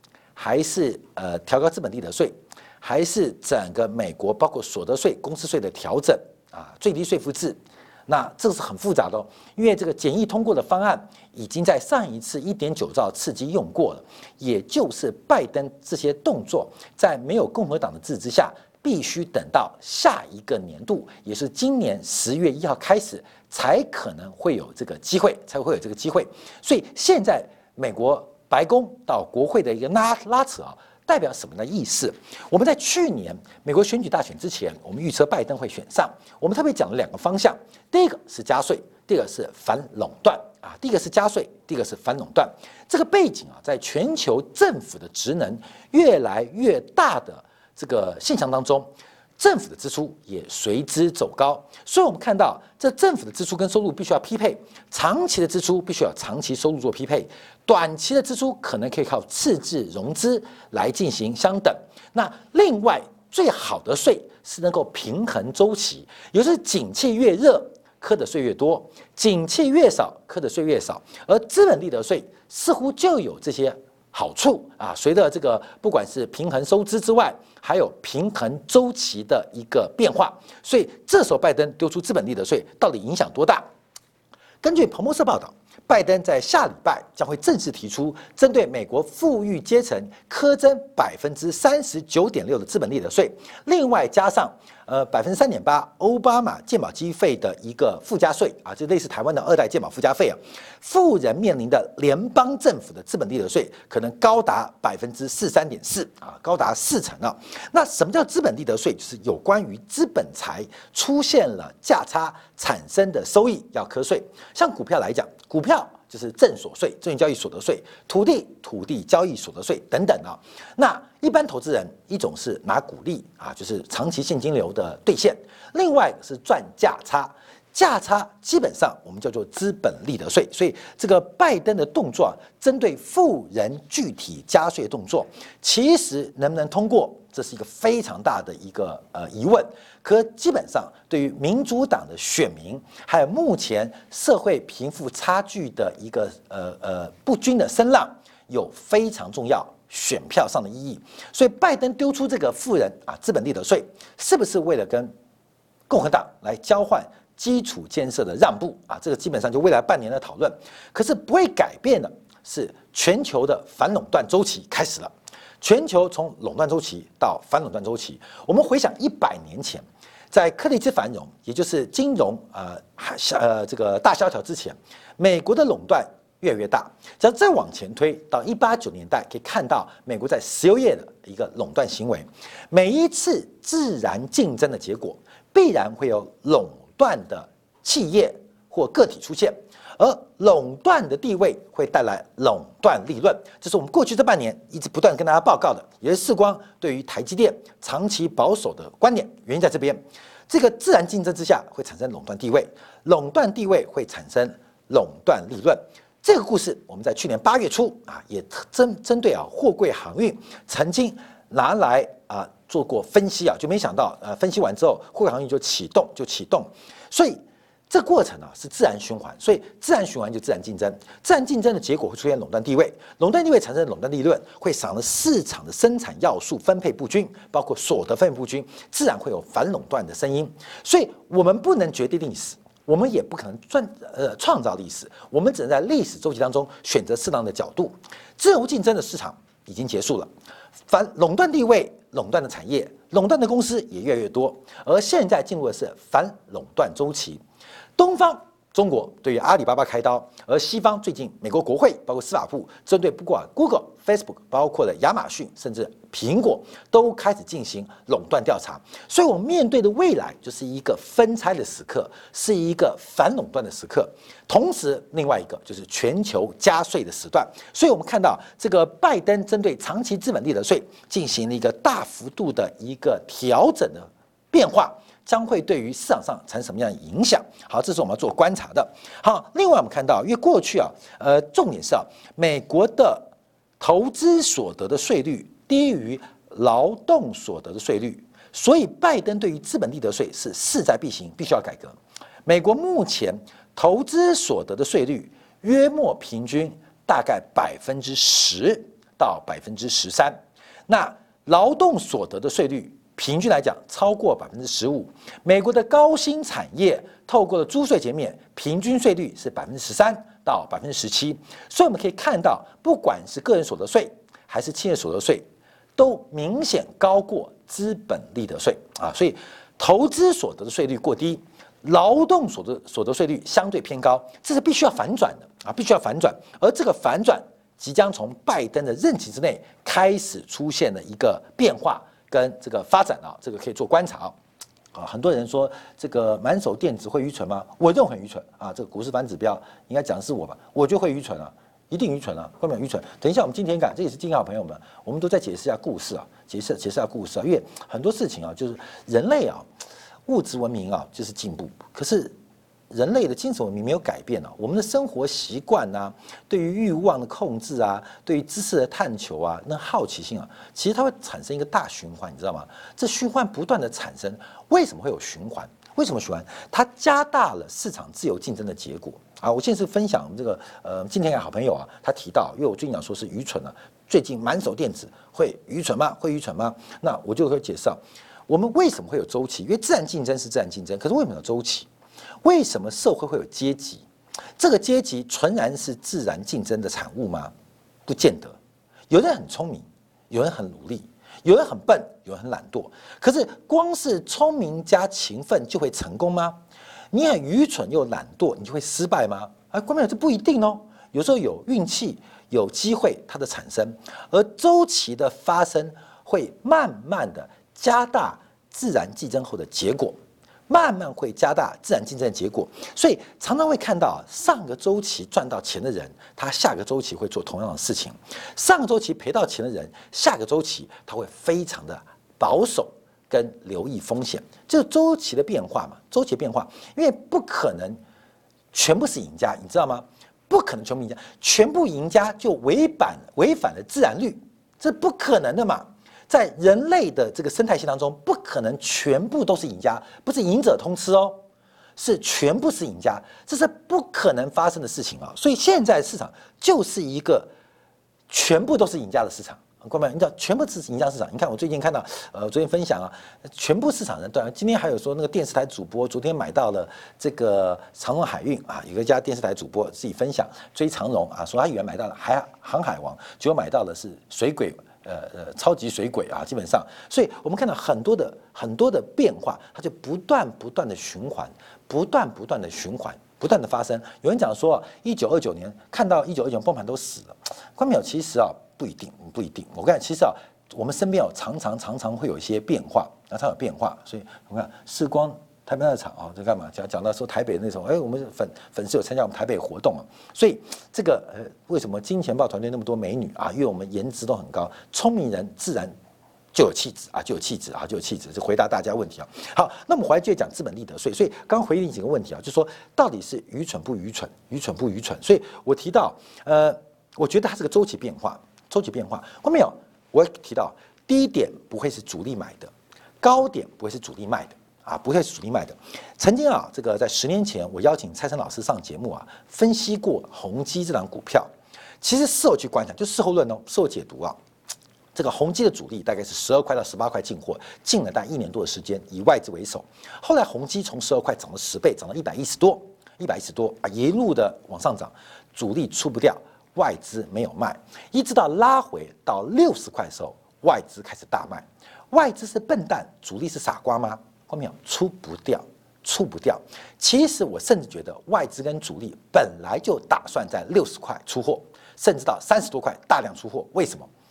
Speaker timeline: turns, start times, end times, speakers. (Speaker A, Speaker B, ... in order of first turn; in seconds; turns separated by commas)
Speaker A: 0.3-83.6, Speaker A: 84.6-155.1, Speaker A: 155.9-240.3, Speaker A: 240.9-247.4, Speaker A: 248.0-315.4, Speaker A: 316.0-334.4, Speaker A: 334.9-349.7, Speaker A: 350.3-352.3, Speaker A: 352.9-381.9, Speaker A: 382.4-384.1, Speaker A: 384.6-387.5, Speaker A: 388.1-388.6, Speaker A: 389.1-396.6, Speaker A: 397.1-410.2, Speaker A: 410.7-428.0, Speaker A: 428.7-441.4, Speaker A: 442.0-447.5, Speaker A: 448.3-495.9, Speaker A: 496.5-521.5, Speaker A: 522.0-524.4, Speaker A: 525.1-554.1